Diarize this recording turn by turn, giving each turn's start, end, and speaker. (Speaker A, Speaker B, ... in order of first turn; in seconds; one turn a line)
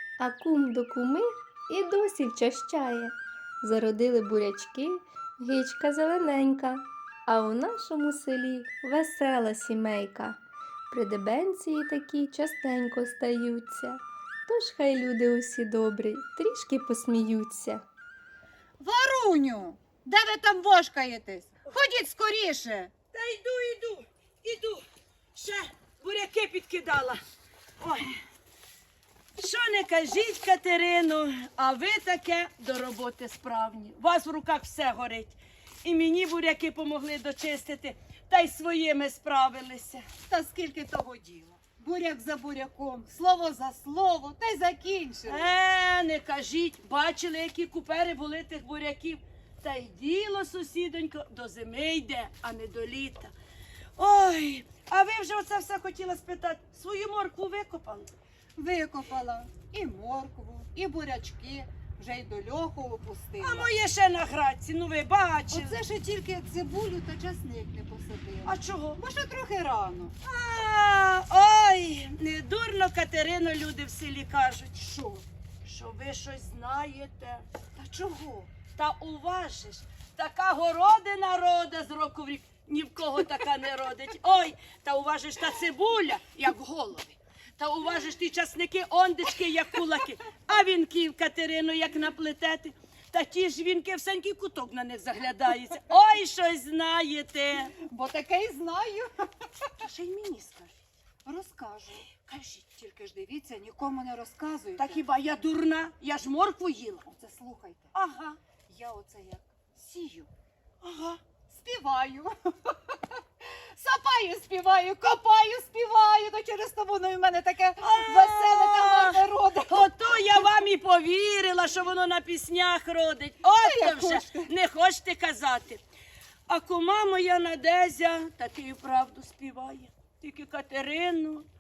Speaker A: 0.2-10.4
Speaker A: 10.9-17.9
Speaker B: 18.8-22.9
Speaker C: 23.1-24.8
Speaker C: 25.4-27.2
Speaker C: 27.8-28.1
Speaker C: 29.4-40.1
Speaker B: 40.2-45.5
Speaker C: 45.2-53.4
Speaker C: 54.0-58.1
Speaker B: 58.6-63.7
Speaker C: 63.4-65.8
Speaker B: 65.5-70.1
Speaker C: 68.5-69.0
Speaker C: 70.2-74.8
Speaker B: 74.8-75.2
Speaker C: 75.6-77.5
Speaker B: 77.8-78.5
Speaker C: 78.7-97.8
Speaker B: 97.8-99.1
Speaker C: 99.8-100.8
Speaker B: 101.2-105.0
Speaker C: 104.8-107.1
Speaker B: 107.1-108.0
Speaker C: 107.9-108.4
Speaker B: 108.7-110.3
Speaker C: 110.8-111.2
Speaker B: 111.5-120.3
Speaker C: 117.8-125.8
Speaker B: 123.6-124.5
Speaker C: 126.5-131.5